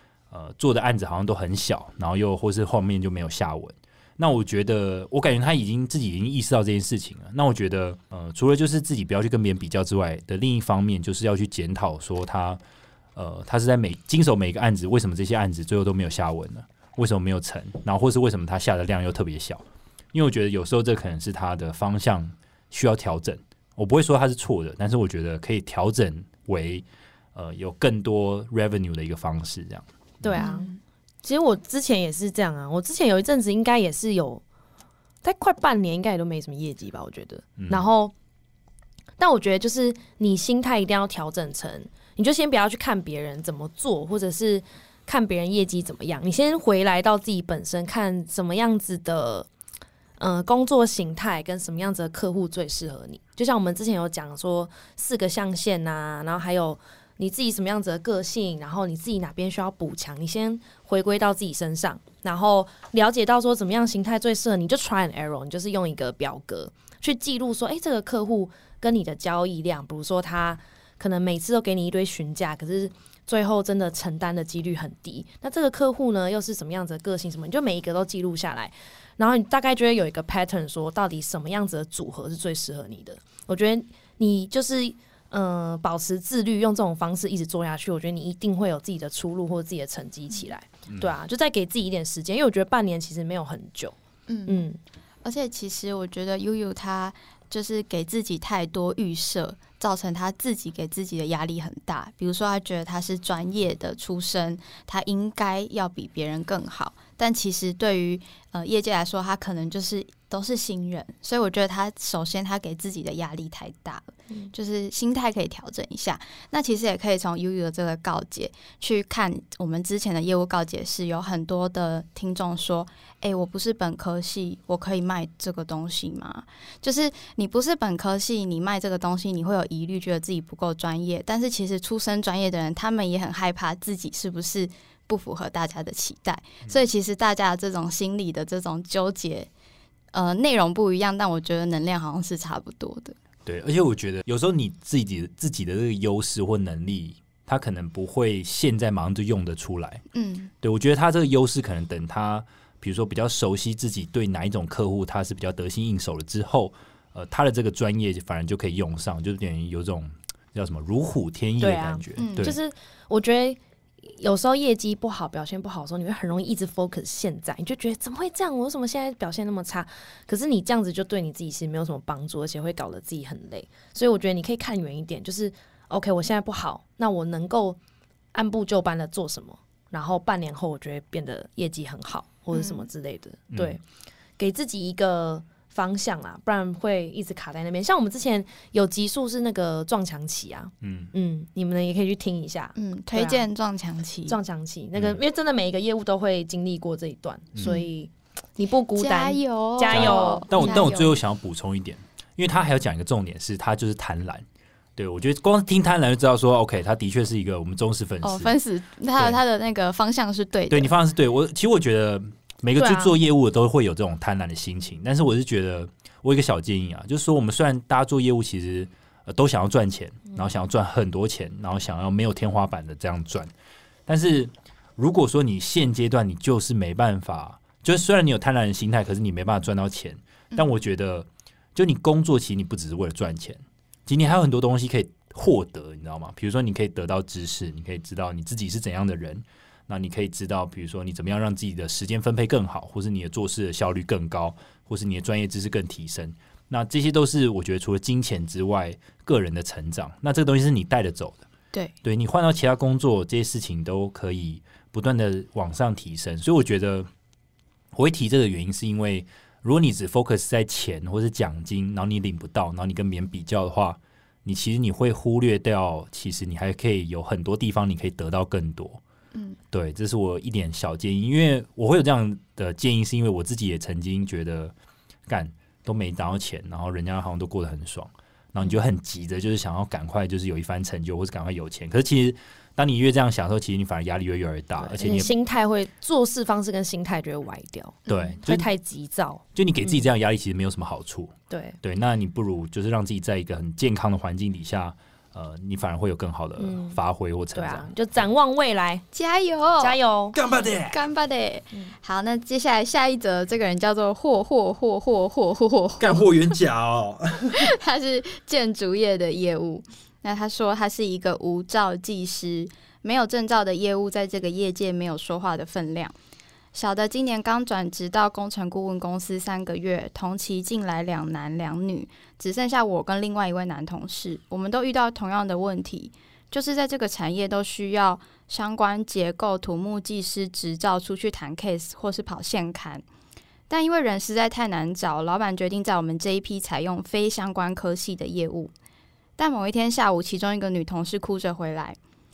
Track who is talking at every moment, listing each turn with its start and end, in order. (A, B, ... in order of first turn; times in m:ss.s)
0:00.3-0:12.6 A
0:13.2-0:30.4 A
0:30.2-0:30.7 B
0:30.4-0:30.8 C
0:31.2-0:34.4 B
0:35.2-0:38.1 B
0:37.6-0:37.8 A
0:39.2-0:49.5 B
0:50.2-1:33.9 B
1:30.9-1:31.1 A
1:34.3-1:34.6 C
1:34.5-1:34.8 B
1:35.2-2:19.5 C
2:20.1-2:23.1 C
2:23.4-2:30.0 A
2:30.1-2:30.5 C
2:30.6-2:42.6 A
2:41.6-2:57.8 B
2:42.2-2:42.5 C
2:58.3-3:03.8 B
3:02.5-3:02.9 C
3:03.5-3:03.8 A
3:04.4-3:13.4 B
3:10.8-3:11.1 A
3:12.8-3:14.4 C
3:14.3-3:20.8 B
3:17.5-3:17.8 A
3:18.9-3:21.2 C
3:19.9-3:24.4 A
3:25.0-3:28.6 A
3:28.2-3:30.9 C
3:30.7-3:43.5 A
3:32.8-3:33.2 B
3:44.1-4:11.4 A
4:12.0-4:17.1 A
4:17.9-4:29.0 A
4:29.7-4:34.7 A
4:35.3-4:45.3 A
4:44.8-4:50.0 B
4:48.1-4:48.3 C
4:48.1-4:48.7 A
4:49.5-4:57.9 A
4:51.5-4:51.8 B
4:56.6-4:57.0 B
4:57.5-4:59.0 B
4:59.1-5:00.0 C
4:59.8-5:00.4 B
5:00.3-5:01.0 A
5:00.9-5:06.3 C
5:06.0-5:07.7 A
5:07.5-5:16.1 C
5:16.7-5:33.0 C
5:33.7-5:38.7 C
5:39.4-5:42.0 C